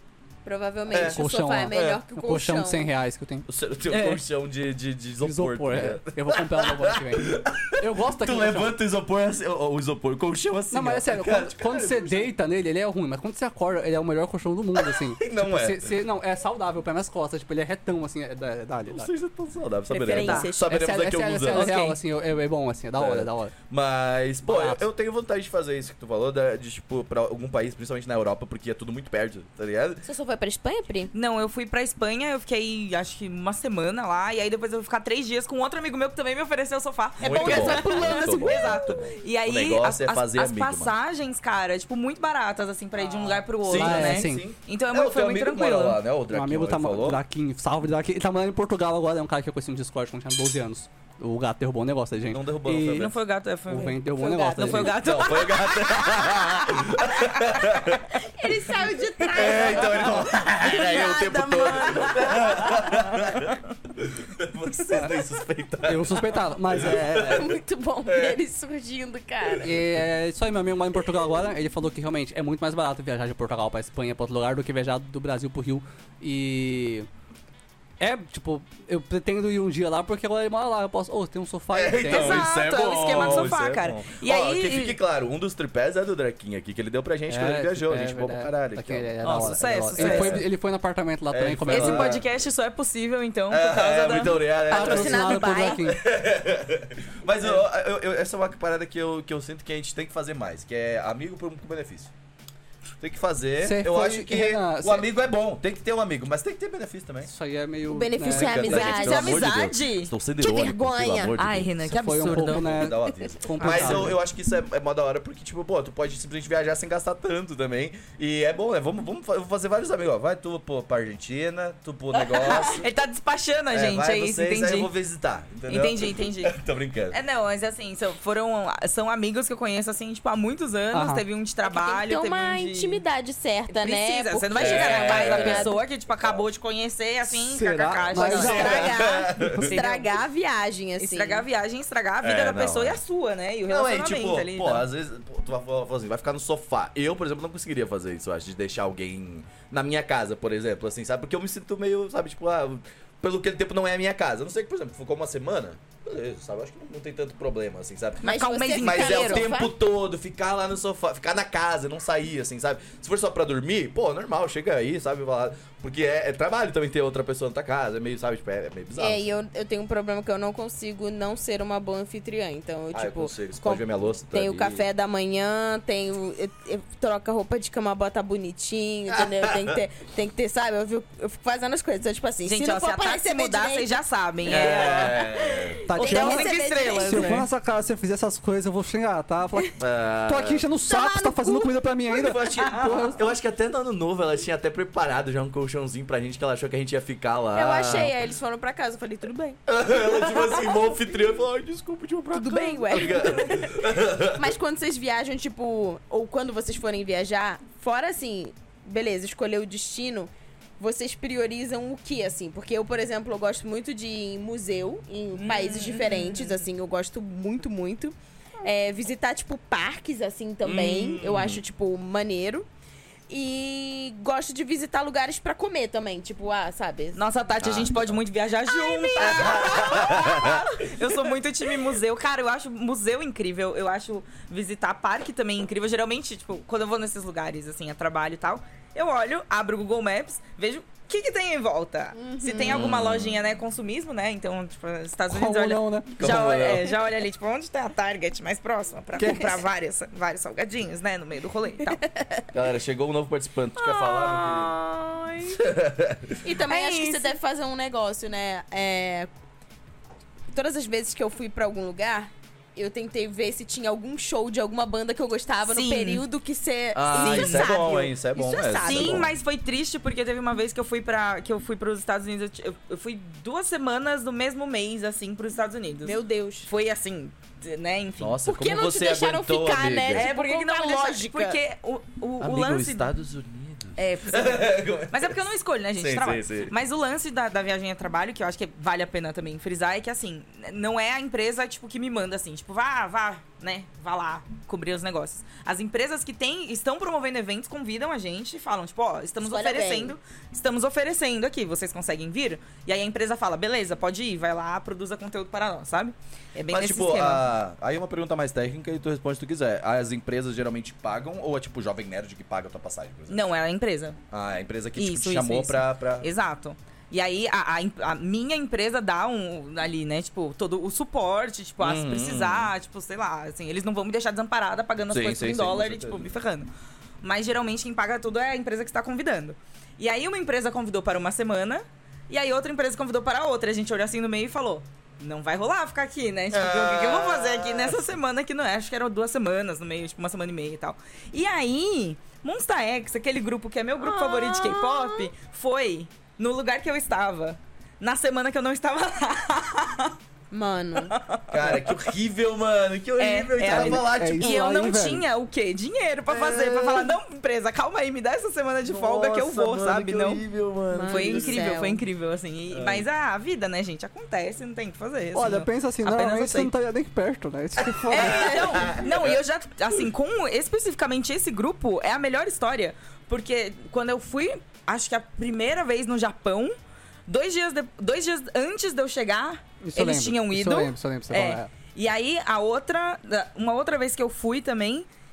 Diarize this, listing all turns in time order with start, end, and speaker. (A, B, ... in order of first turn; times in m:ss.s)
0:00.4-0:02.9 A
0:00.9-0:02.0 B
0:01.0-0:03.5 C
0:03.5-0:12.3 B
0:03.9-0:04.2 D
0:05.2-0:08.8 C
0:10.7-0:19.1 C
0:14.8-0:16.0 B
0:18.9-0:21.7 B
0:19.9-0:20.8 A
0:20.1-0:23.5 C
0:21.5-0:22.0 D
0:23.0-0:30.0 B
0:24.5-0:24.8 C
0:30.0-0:31.1 A
0:31.1-0:46.0 D
0:37.2-0:40.9 B
0:37.2-0:39.1 A
0:43.1-0:44.4 C
0:43.6-0:47.2 B
0:46.3-0:53.1 C
0:52.3-0:53.1 B
0:52.9-0:57.6 D
0:53.7-0:55.0 C
0:54.2-0:54.9 A
0:54.6-0:58.2 B
0:58.2-1:02.9 A
0:59.3-1:08.4 B
1:05.8-1:07.5 C
1:07.2-1:09.7 A
1:09.4-1:09.8 B
1:09.6-1:17.1 C
1:18.0-1:22.6 C
1:21.7-1:30.5 B
1:22.0-1:25.0 D
1:23.1-1:23.5 C
1:27.3-1:32.2 C
1:29.2-1:30.4 D
1:31.3-1:32.3 B
1:31.7-1:34.4 D
1:33.5-1:42.1 B
1:34.7-1:36.0 C
1:34.7-1:35.8 A
1:43.0-1:47.3 B
1:43.6-1:45.1 C
1:47.2-1:48.8 C
1:47.9-1:49.5 A
1:48.2-2:02.9 B
1:48.7-1:50.1 D
1:50.4-1:51.4 A
1:51.4-1:52.9 D
1:51.8-1:54.2 C
1:53.6-1:54.1 D
2:02.4-2:04.9 D
2:03.7-2:07.2 B
2:05.7-2:06.6 D
2:07.1-2:13.0 D
2:10.9-2:11.2 C
2:11.6-2:15.8 A
2:13.7-2:18.9 D
2:14.6-2:16.4 B
2:17.3-2:20.1 C
2:18.1-2:21.4 A
2:18.3-2:19.8 B
2:21.0-2:24.9 D
2:22.2-2:23.0 B
2:23.7-2:38.3 B
2:38.2-2:39.7 A
2:38.2-2:39.5 D
2:38.8-2:49.3 B
2:49.0-3:07.5 A
2:52.9-2:54.8 B
2:59.1-2:59.8 B
3:02.4-3:05.2 D
3:04.5-3:05.9 B
3:05.9-3:13.2 C
3:06.0-3:07.5 D
3:09.8-3:10.7 B
3:10.8-3:11.7 A
3:12.1-3:18.1 B
3:17.5-3:20.8 A
3:19.7-3:24.4 B
3:22.3-3:42.7 A
3:35.3-3:36.7 D
3:40.6-3:41.6 B
3:43.3-3:47.2 A
3:47.2-4:12.0 D
3:47.6-3:48.2 B
3:48.7-3:50.6 A
3:49.2-3:50.6 B
4:02.2-4:02.9 A
4:02.6-4:03.4 B
4:05.3-4:06.3 C
4:06.2-4:06.9 B
4:09.2-4:09.6 C
4:12.5-4:14.7 B
4:13.9-4:15.5 D
4:15.5-4:16.4 B
4:16.4-4:19.3 A
4:16.7-4:17.4 D
4:20.5-4:29.3 A
4:25.7-4:26.2 D
4:27.0-4:29.3 B
4:27.2-4:27.8 D
4:28.8-4:38.4 D
4:36.0-4:36.7 A
4:38.2-4:40.3 B
4:38.5-4:41.6 A
4:40.1-4:43.1 D
4:42.4-4:45.4 B
4:44.0-5:07.5 D
4:46.0-4:46.7 B
4:59.4-5:00.2 A
5:06.7-5:13.5 B
5:13.3-5:14.2 D
5:14.3-5:16.3 B
5:15.0-5:26.7 D
5:21.8-5:22.7 B
5:25.1-5:26.3 B
5:27.2-5:50.2 D
5:36.5-5:38.2 B
5:44.0-5:45.3 A
5:50.5-5:51.2 A
5:51.0-5:52.1 D
5:51.5-5:54.6 B
5:53.2-6:00.4 D
5:53.6-5:55.2 C
5:56.3-5:57.1 B
5:58.9-6:01.7 B
6:00.9-6:02.0 A
6:01.1-6:06.7 D
6:02.7-6:03.1 B
6:05.3-6:08.8 C
6:07.8-6:09.4 B
6:08.1-6:16.8 D
6:17.3-6:25.1 D
6:19.8-6:21.7 C